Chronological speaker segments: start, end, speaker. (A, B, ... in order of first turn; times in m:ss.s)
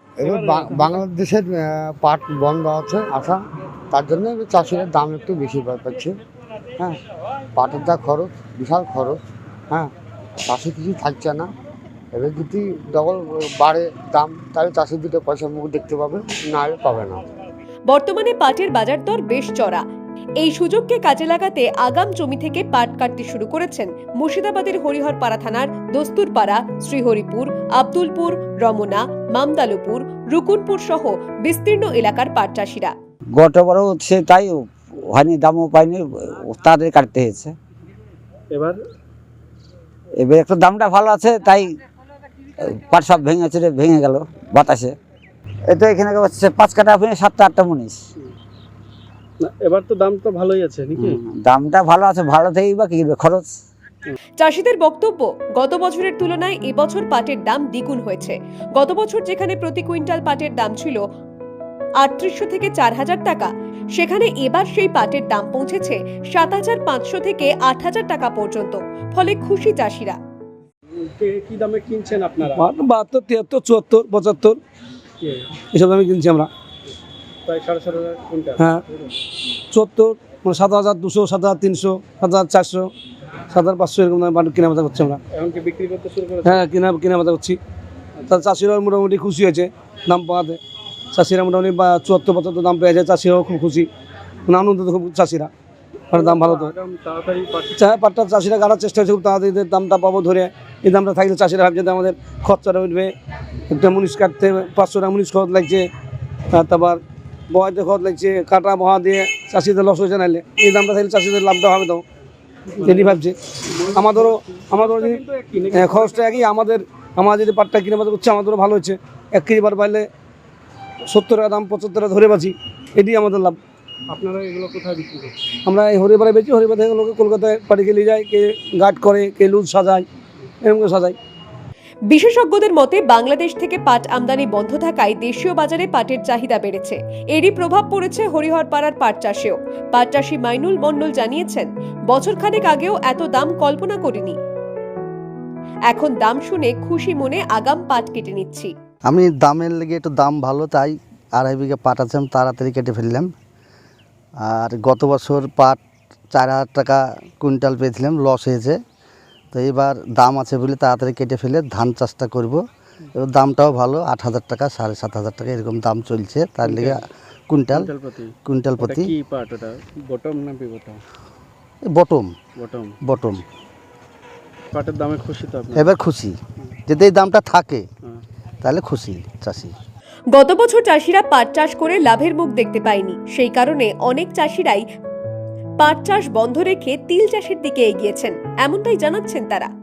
0:00.2-0:03.4 A
0:00.2-0:01.0 B
0:03.9-0:06.2 A
0:07.6-0:09.2 A
0:10.5-0:11.5 A
0:12.1-0:17.2 A
0:17.9-0:19.8 C
0:20.4-0:32.9 C
0:33.3-0:37.6 D
0:38.5-0:38.8 B
0:40.2-0:41.7 D
0:42.7-0:45.0 D
0:45.7-0:48.0 D
0:49.4-0:51.2 B
0:51.0-0:53.5 D
0:54.4-1:01.0 C
1:02.0-1:10.2 C
1:11.1-1:12.7 B
1:12.5-1:14.6 E
1:15.2-1:15.6 B
1:15.7-1:16.5 E
1:17.5-1:19.1 B
1:18.6-1:18.8 E
1:19.7-1:22.9 E
1:23.5-1:25.2 E
1:25.3-1:26.6 B
1:26.4-1:27.6 E
1:28.3-1:30.6 E
1:31.1-1:33.9 E
1:34.5-1:35.5 E
1:36.1-1:36.7 E
1:36.1-1:37.8 B
1:37.8-1:43.1 E
1:43.7-1:45.9 E
1:46.5-1:52.0 E
1:52.7-1:56.5 B
1:52.8-1:53.4 E
1:53.9-1:55.2 E
1:55.7-2:00.1 E
2:01.1-2:03.6 E
2:04.1-2:05.4 B
2:05.7-2:10.1 E
2:10.6-2:11.2 E
2:12.1-2:24.4 C
2:25.9-2:28.7 C
2:29.1-2:33.3 F
2:34.4-2:35.8 F
2:36.3-2:38.8 F
2:39.5-2:42.6 F
2:43.2-2:47.9 F
2:46.6-2:47.0 B
2:47.7-2:51.0 B
2:48.4-2:49.1 F
2:51.9-2:52.3 F
2:52.6-2:53.0 B
2:53.0-2:53.4 F
2:54.7-2:55.9 B
2:55.8-2:57.8 F
2:58.6-2:59.7 F
3:00.3-3:04.9 C
3:05.8-3:09.7 C